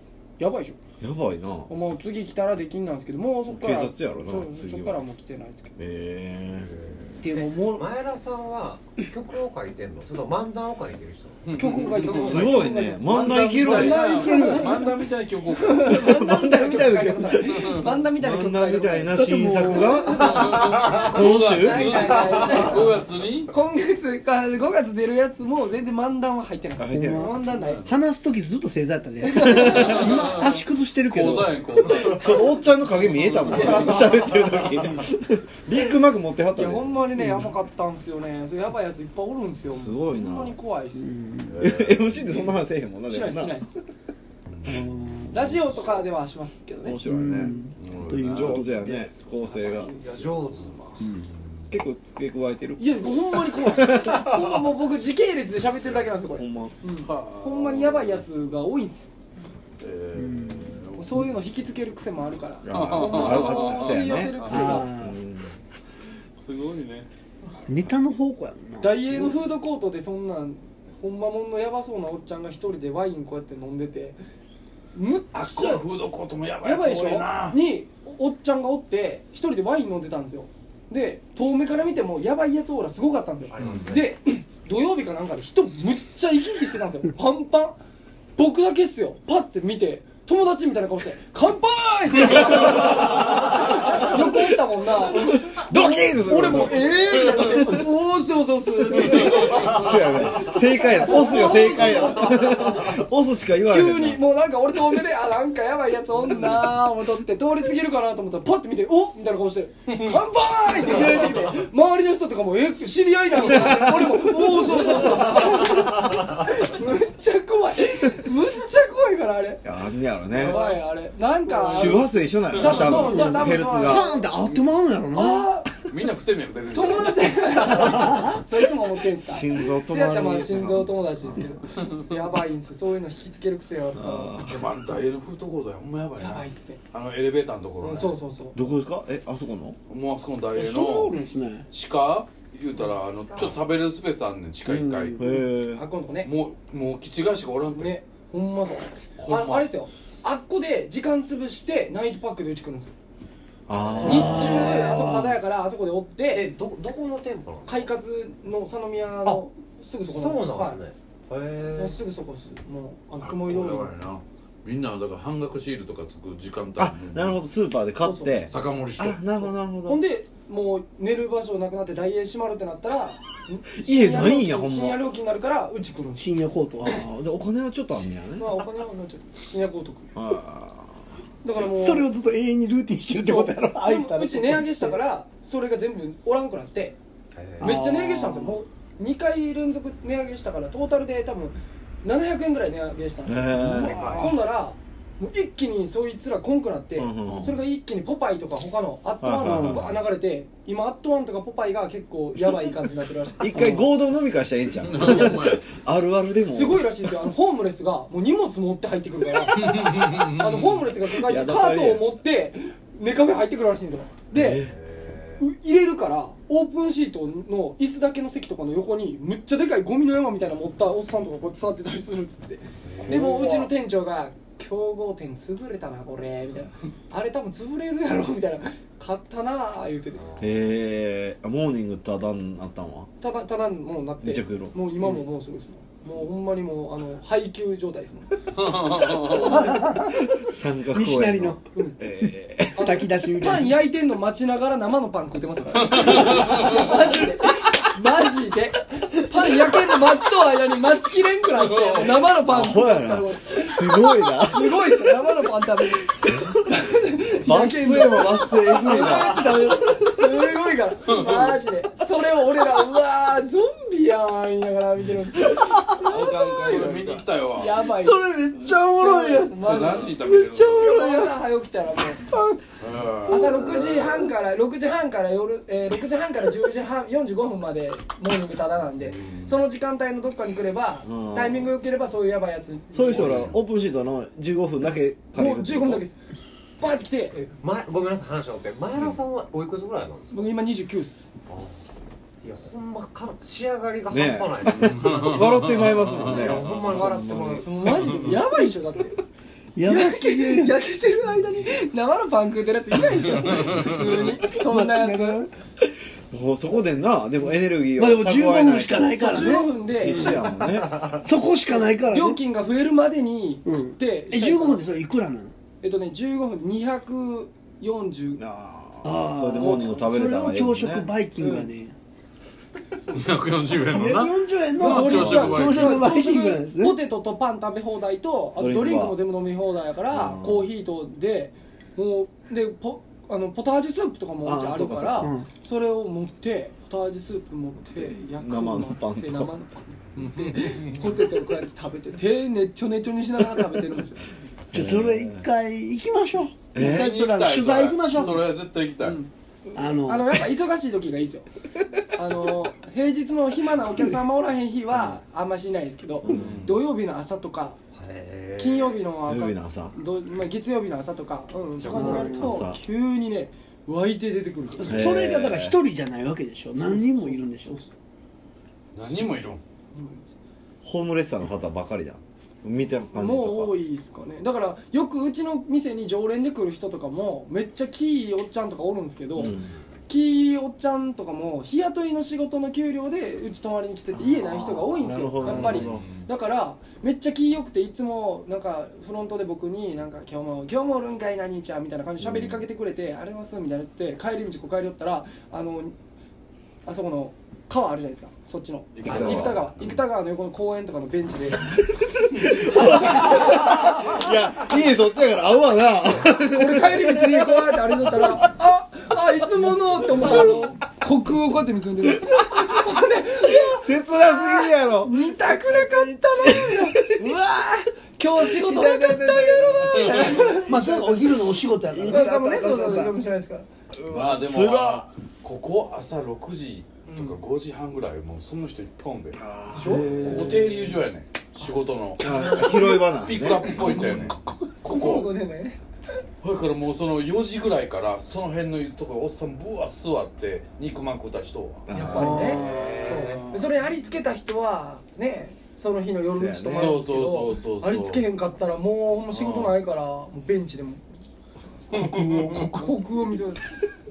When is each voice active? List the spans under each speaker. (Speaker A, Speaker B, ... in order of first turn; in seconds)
Speaker A: 0.4-0.8, 1.7-5.8, 7.2-7.9, 11.5-14.9, 15.5-27.9, 29.2-30.3, 33.4-34.3, 36.5-41.1, 42.3-43.8, 45.3-47.0, 52.8-59.1, 61.0-64.9, 68.8-74.2, 74.9-75.8, 76.6-87.8, 88.4-103.0, 103.6-119.6, 120.3-124.3, 125.1-125.8, 126.7-134.5, 136.2-136.8, 137.8-138.6, 145.2-146.3, 147.7-152.9, 154.0-156.5, 157.7-160.8, 161.8-163.9, 168.0-168.3, 169.9-176.3, 178.3-180.1, 181.4-182.1, 183.1-187.0, 187.6-203.9, 205.0-205.3, 206.5-214.7, 215.4-230.4, 233.2-238.4, 239.2-239.9, 241.7-242.0, 242.7-266.9, 267.5-268.2, 268.9-272.3, 273.3-283.6, 285.3-286.2, 286.8-287.4, 290.3-291.2, 297.6-299.2, 299.8-305.5, 309.1-310.5, 311.6-315.0, 315.8-318.4, 319.6-320.1, 321.4-321.7, 324.7-344.3, 349.0-351.4, 352.1-357.8, 358.6-365.1, 369.9-370.2, 373.1-379.6, 380.1-395.9, 396.8-401.7, 402.4-404.1, 406.4-420.7, 422.1-423.6, 427.1-427.3, 429.7-430.6, 432.2-434.3, 434.8-435.8, 441.9-451.0, 451.9-453.7
Speaker B: 1.0-1.7, 3.5-5.0, 5.8-6.7, 12.1-14.1, 15.8-22.0, 26.8-27.3, 29.4-30.0, 32.1-36.9, 39.7-40.5, 41.6-43.5, 46.8-47.6, 48.3-50.1, 51.7-54.3, 56.3-56.8, 62.6-65.5, 95.1-97.8, 98.9-104.2, 119.6-120.6, 121.7-124.2, 129.2-131.6, 133.9-134.6, 138.5-139.8, 145.2-145.8, 153.7-154.8, 166.8-170.0, 173.7-175.0, 176.8-178.6, 180.1-181.0, 193.2-194.4, 196.9-197.5, 199.2-199.9, 203.4-206.9, 211.2-212.1, 214.3-214.7, 223.1-223.4, 230.4-233.1, 234.2-234.7, 240.2-242.9, 252.4-254.9, 257.3-259.7, 265.9-267.3, 281.0-281.7, 282.9-286.0, 294.1-297.7, 306.3-311.0, 318.4-321.1, 328.6-329.2, 330.1-330.7, 334.4-335.3, 338.2-339.5, 344.7-345.4, 346.7-347.1, 356.2-356.6, 359.2-359.9, 361.9-362.8, 364.8-365.8, 370.8-373.8, 379.4-379.7, 384.1-386.1, 392.2-392.6, 399.0-399.6, 402.3-407.6, 413.6-415.2, 416.5-417.3, 418.4-423.2, 424.0-425.1, 429.3-430.7, 432.2-434.2, 441.9-443.2, 446.2-447.0
Speaker C: 6.5-11.4, 49.8-50.8, 83.5-84.1, 153.7-154.6, 156.3-157.9, 160.0-162.0, 187.3-187.8, 193.7-194.3, 214.6-215.4, 222.8-223.2, 230.2-230.5, 287.4-290.4, 291.5-291.7, 292.4-295.4, 296.2-298.3, 357.9-359.0, 361.8-362.4
Speaker D: 11.4-12.5, 13.0-16.0, 17.5-17.9, 20.2-23.5, 27.5-27.9, 29.7-34.3, 41.5-42.5, 44.5-44.9, 47.8-48.7, 49.8-51.2, 55.7-56.0, 57.0-58.2, 59.8-61.2, 62.7-64.8, 66.3-67.1, 75.3-77.6, 83.6-83.8, 99.0-100.2, 109.9-110.2, 110.8-111.3, 122.5-123.1, 125.8-127.8, 134.4-138.2, 139.9-141.2, 141.7-145.2, 146.2-147.9, 149.2-149.7, 163.2-167.4, 168.4-169.5, 197.3-197.5, 204.8-205.7, 209.5-210.8, 223.1-223.6, 238.6-239.7, 246.1-246.8, 251.6-252.2, 261.1-261.5, 266.6-267.8, 269.6-271.0, 272.8-273.8, 279.0-279.5, 283.1-283.5, 294.8-296.8, 323.1-326.1, 340.1-341.2, 346.7-349.2, 356.3-356.8, 368.9-369.6, 385.4-386.2, 398.9-400.0, 419.5-420.6, 424.1-429.4, 430.2-435.3, 436.4-443.2, 446.7-448.2, 449.3-449.8, 451.9-453.0
Speaker E: 13.6-14.8, 19.1-20.2, 26.9-31.6, 41.0-41.5, 44.6-45.5, 47.0-49.0, 51.0-51.2, 60.1-60.8, 64.5-65.2, 67.7-69.4, 122.9-125.5, 140.5-141.7, 144.6-145.4, 154.1-155.4, 176.2-177.1, 181.6-185.0, 187.6-188.6, 239.4-240.2, 240.9-241.6, 242.2-243.8, 267.8-271.3, 272.3-272.6, 273.3-274.3, 299.8-300.8, 304.5-305.5, 307.9-310.4, 311.2-312.4, 313.6-315.5, 319.0-321.9, 323.8-327.0, 335.2-335.5, 344.7-348.4, 349.7-350.4, 362.0-362.5, 364.7-367.9, 420.6-422.3, 433.9-434.7, 452.0-452.7